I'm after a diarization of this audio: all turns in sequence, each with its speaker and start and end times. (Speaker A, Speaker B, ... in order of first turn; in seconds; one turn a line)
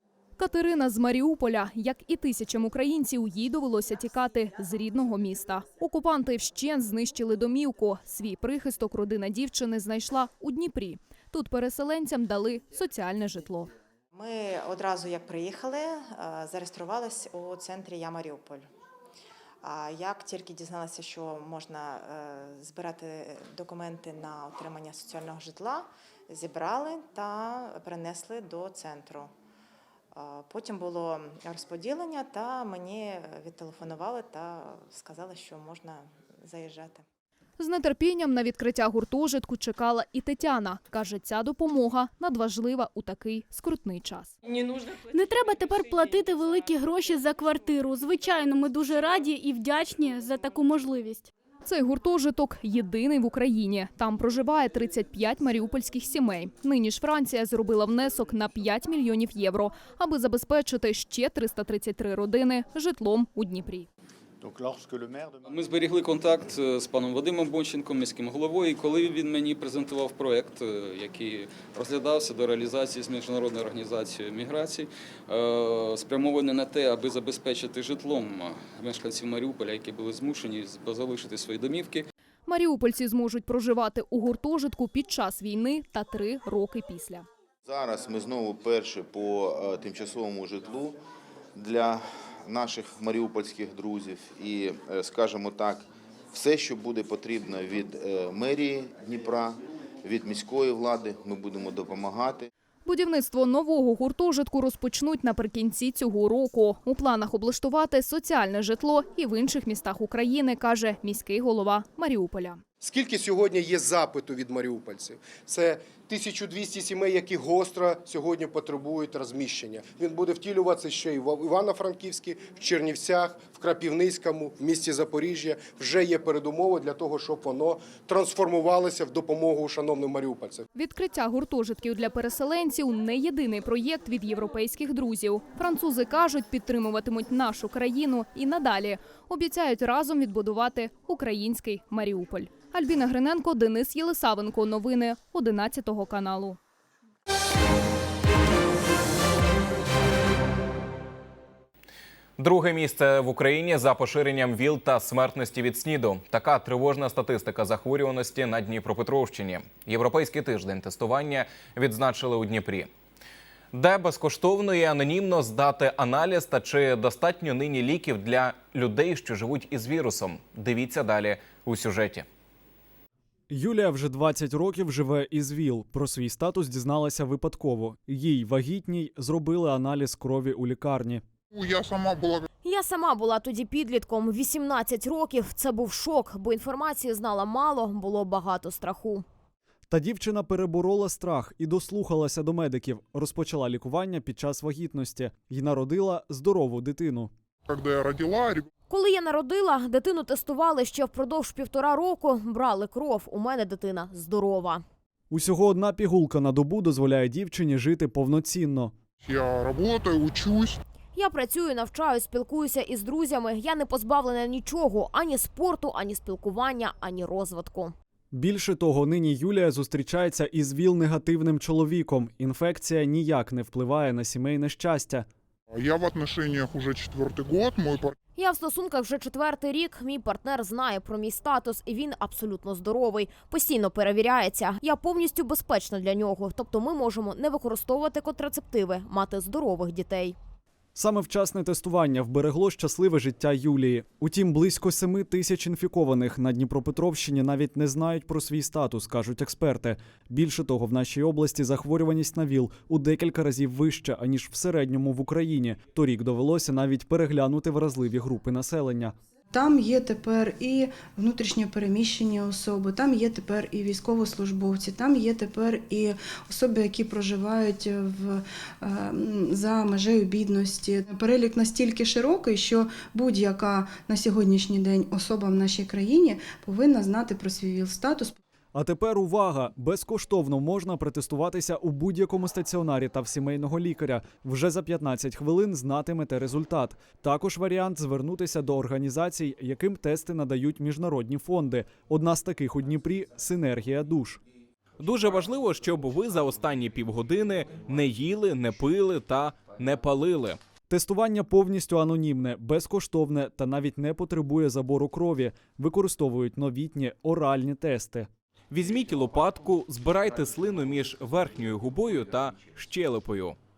Speaker A: 0.4-13.7
Speaker B: 14.2-18.6
Speaker B: 19.6-29.3
Speaker B: 30.2-37.0
Speaker A: 37.6-44.3
Speaker C: 45.0-51.3
Speaker A: 51.6-63.9
Speaker D: 65.4-82.1
Speaker A: 82.5-87.3
Speaker E: 87.7-91.0
Speaker E: 91.5-102.5
Speaker A: 102.8-112.6
Speaker F: 112.8-130.7
Speaker A: 130.8-146.6
Speaker G: 152.4-162.9
Speaker G: 163.7-172.3
Speaker H: 173.5-181.2
Speaker I: 181.5-182.5
Speaker J: 182.6-189.2
Speaker H: 189.9-197.3
Speaker I: 197.7-198.7
Speaker J: 198.9-204.8
Speaker H: 205.3-208.9
Speaker I: 209.2-210.8
Speaker J: 211.2-217.9
Speaker H: 218.3-225.3
Speaker I: 225.7-228.2
Speaker J: 228.4-240.4
Speaker H: 241.0-259.2
Speaker K: 259.5-278.4
Speaker H: 278.8-294.4
Speaker G: 295.0-300.6
Speaker H: 300.9-308.3
Speaker G: 308.7-313.6